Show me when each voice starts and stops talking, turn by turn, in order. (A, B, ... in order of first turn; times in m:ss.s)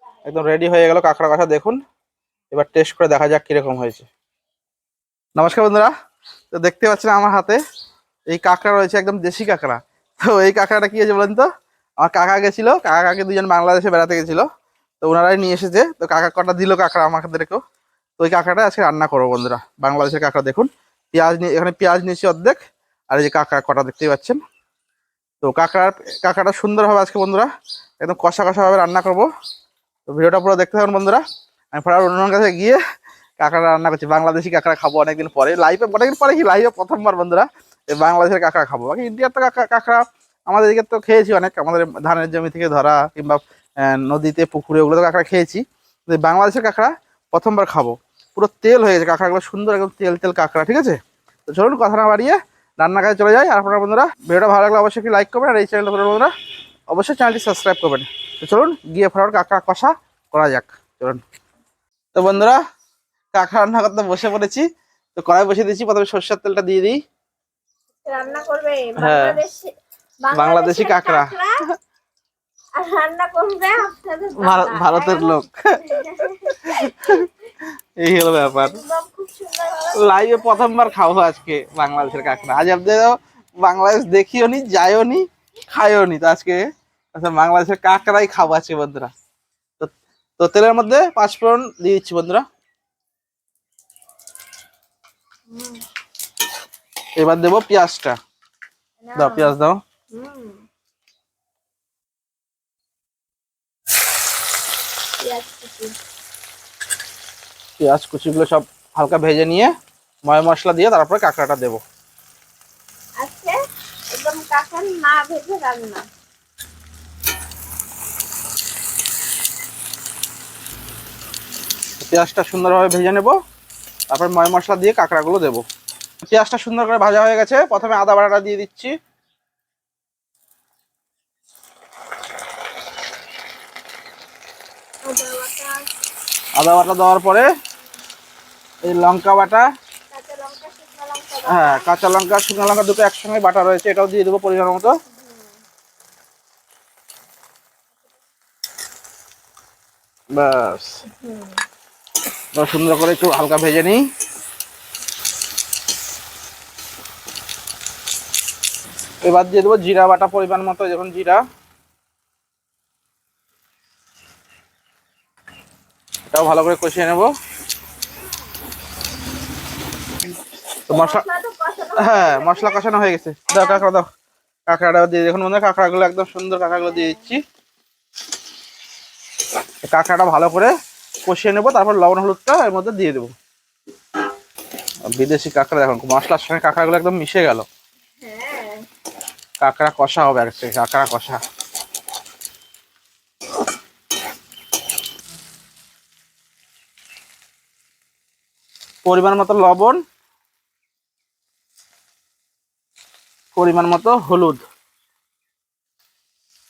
0:00.2-0:01.8 A
0:02.5-0:04.1 A
0:05.4-0:05.9 A
0:06.5-0:07.6 A
0:08.3-0:11.5 A
0:12.0-0:14.4 A
0:15.0-0:17.6 A
0:18.2-0:22.6 A
0:23.1-0:24.4 A
0:25.4-0:27.5 A
0:28.0-0:29.3 A
0:30.1-0:32.8 A
0:33.4-0:56.3 A
0:56.9-1:01.2 A
1:02.1-1:02.6 A
1:03.3-1:07.0 A
1:08.0-1:11.6 B
1:09.0-1:09.4 A
1:10.3-1:11.3 A
1:12.8-1:17.3 B
1:14.4-1:16.1 A
1:16.6-1:17.3 A
1:18.0-1:18.8 A
1:18.5-1:20.8 B
1:19.9-1:26.6 A
1:21.9-1:22.6 B
1:27.1-1:29.1 A
1:29.8-1:32.4 A
1:35.5-1:35.8 B
1:37.2-1:38.2 A
1:39.0-1:39.5 B
1:39.2-1:39.8 A
1:40.1-1:40.6 B
1:45.2-1:45.9 B
1:47.8-1:49.7 A
1:50.2-1:51.8 A
1:53.2-1:53.6 B
1:54.1-1:56.1 B
2:02.0-2:03.3 A
2:04.1-2:05.6 A
2:06.2-2:08.9 A
2:15.0-2:15.8 B
2:16.6-2:17.5 A
2:18.8-2:19.7 A
2:20.1-2:21.9 B
2:21.4-2:24.9 A
2:25.1-2:25.5 B
2:30.3-2:31.0 A
2:31.1-2:31.6 B
2:32.5-2:34.0 A
2:39.2-2:41.4 A
2:46.3-2:47.3 A
2:50.9-2:51.2 A
2:50.9-2:52.9 B
2:52.0-2:54.1 A
2:53.5-2:53.9 B
2:54.7-2:57.4 A
2:56.7-2:57.3 B
2:59.8-3:00.7 A
3:01.2-3:03.3 A
3:05.1-3:07.6 A
3:08.2-3:08.8 B
3:09.6-3:11.4 A
3:19.0-3:20.0 A
3:23.5-3:24.6 A